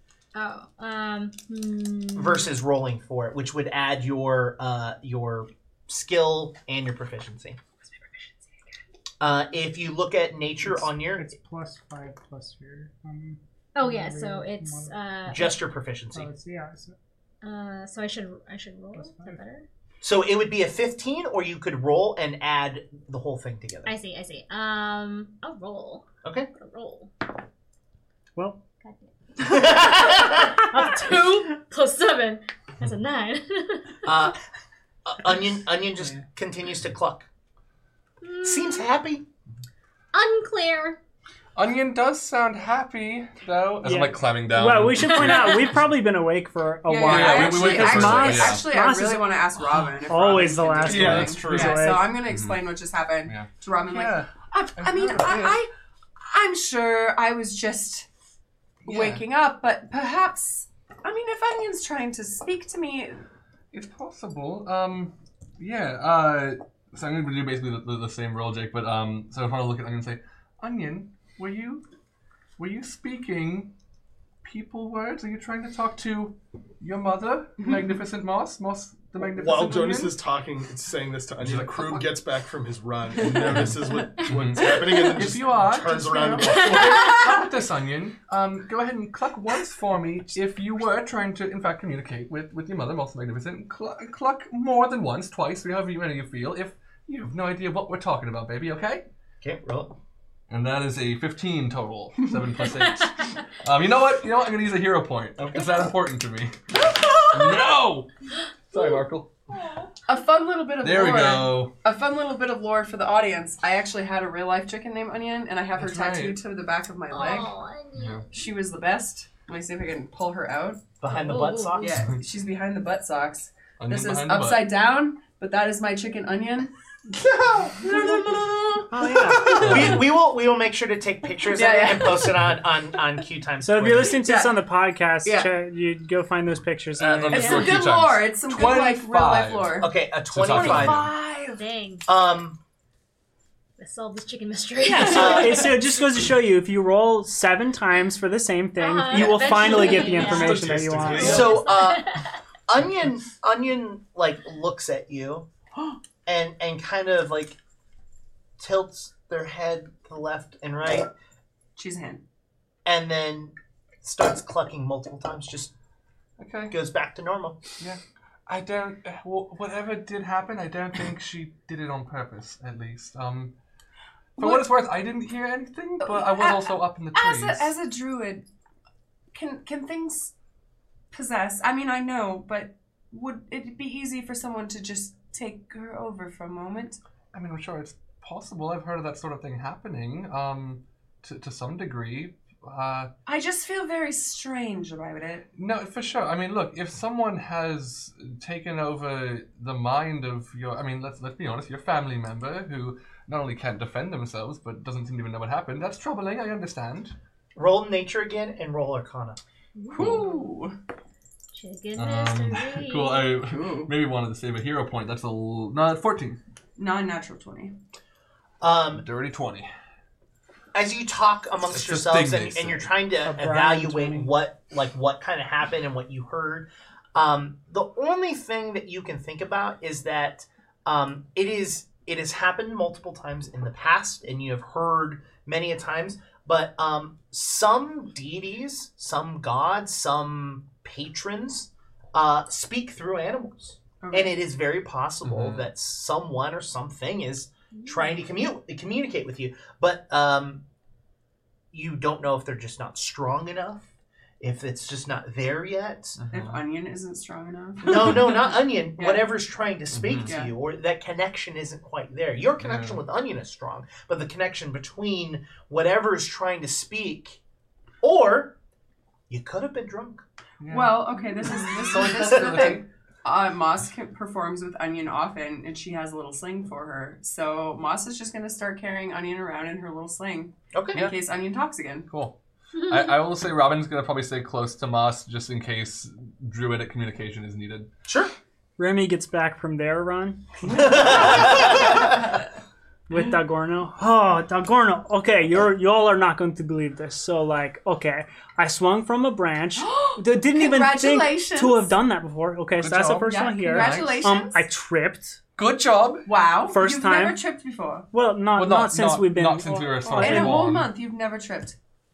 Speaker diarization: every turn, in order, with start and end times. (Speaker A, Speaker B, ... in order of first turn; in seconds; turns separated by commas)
Speaker A: 0.3-2.5, Speaker B: 2.1-7.6, Speaker B: 9.2-11.3, Speaker C: 10.6-14.9, Speaker A: 13.8-15.5, Speaker B: 15.3-16.3, Speaker C: 16.1-17.0, Speaker A: 17.4-19.7, Speaker C: 18.9-19.4, Speaker B: 20.0-23.9, Speaker A: 23.9-27.1, Speaker B: 26.2-26.5, Speaker A: 28.8-34.2, Speaker B: 29.4-30.7, Speaker C: 30.8-31.1, Speaker B: 34.0-34.4, Speaker B: 35.0-37.3, Speaker A: 38.2-38.9, Speaker B: 38.4-39.2, Speaker A: 40.1-41.0, Speaker D: 41.6-45.7, Speaker C: 43.8-49.4, Speaker A: 45.0-45.8, Speaker E: 46.9-55.7, Speaker D: 47.0-48.6, Speaker C: 50.1-52.1, Speaker F: 50.8-51.9, Speaker D: 51.0-51.3, Speaker D: 52.3-52.6, Speaker D: 53.3-55.6, Speaker E: 56.3-58.1, Speaker E: 58.8-63.2, Speaker D: 58.9-59.2, Speaker D: 63.7-71.8, Speaker D: 72.6-73.7, Speaker D: 74.4-80.2, Speaker F: 79.2-87.1, Speaker D: 81.4-82.2, Speaker D: 83.2-99.0, Speaker A: 86.5-87.2, Speaker E: 86.8-87.1, Speaker B: 99.4-100.0, Speaker D: 100.5-108.1, Speaker F: 105.4-105.6, Speaker E: 106.9-107.6, Speaker D: 108.7-109.3, Speaker E: 110.1-117.5, Speaker D: 110.8-111.7, Speaker D: 115.8-116.4, Speaker A: 117.1-118.3, Speaker D: 118.0-118.2, Speaker E: 118.3-120.9, Speaker B: 121.0-122.0, Speaker A: 121.1-122.1, Speaker E: 121.8-126.7, Speaker D: 123.8-124.7, Speaker F: 127.3-128.2, Speaker E: 127.8-128.8, Speaker C: 128.9-129.7, Speaker B: 129.3-134.2, Speaker D: 129.7-130.0, Speaker E: 131.5-132.3, Speaker C: 133.6-137.7, Speaker E: 134.2-134.6, Speaker E: 135.2-135.5, Speaker D: 137.0-141.1, Speaker E: 137.3-139.9, Speaker A: 137.3-137.8, Speaker B: 139.8-141.1, Speaker E: 140.5-141.6, Speaker A: 141.5-142.1, Speaker B: 142.1-142.6, Speaker A: 143.8-145.7, Speaker B: 144.8-146.2, Speaker C: 145.1-151.6, Speaker A: 148.8-152.4, Speaker F: 149.6-151.7, Speaker B: 151.2-152.1, Speaker B: 152.7-155.5, Speaker B: 156.3-157.6, Speaker B: 158.6-161.1, Speaker E: 161.8-162.2, Speaker B: 162.8-165.7, Speaker D: 166.4-166.8, Speaker B: 166.7-167.6, Speaker D: 167.8-173.5, Speaker D: 174.4-177.8, Speaker E: 174.4-174.7, Speaker E: 176.0-178.4, Speaker E: 179.3-180.3, Speaker E: 181.1-187.0, Speaker D: 187.3-193.1, Speaker E: 193.3-195.5, Speaker D: 195.6-207.2, Speaker B: 207.6-209.4, Speaker A: 209.8-210.5, Speaker E: 209.9-210.8, Speaker A: 211.5-213.4, Speaker D: 212.0-216.4, Speaker E: 213.4-213.9, Speaker E: 216.8-217.8, Speaker B: 218.6-219.1, Speaker D: 219.0-219.7, Speaker B: 220.7-250.6, Speaker D: 221.7-222.9, Speaker C: 223.2-224.3, Speaker E: 244.0-244.3, Speaker D: 245.2-245.7, Speaker B: 251.7-253.8, Speaker B: 254.4-256.2, Speaker D: 256.2-256.6, Speaker E: 256.3-259.3, Speaker B: 257.8-267.4, Speaker D: 259.9-260.3, Speaker E: 260.3-260.5, Speaker D: 262.6-263.0, Speaker B: 268.0-268.6, Speaker B: 269.3-270.2, Speaker D: 270.6-272.8, Speaker E: 270.7-282.1, Speaker B: 272.0-272.8, Speaker B: 280.7-281.1, Speaker D: 282.1-282.4, Speaker A: 282.8-283.2, Speaker D: 282.9-287.9, Speaker B: 288.1-288.3, Speaker C: 288.8-292.0, Speaker B: 290.7-292.2, Speaker C: 293.1-305.4, Speaker E: 299.8-301.9, Speaker D: 302.8-304.3, Speaker E: 303.3-304.6, Speaker D: 305.6-306.3, Speaker E: 306.3-308.1, Speaker C: 306.7-307.4, Speaker C: 308.1-310.7, Speaker D: 308.6-310.9, Speaker E: 310.2-311.8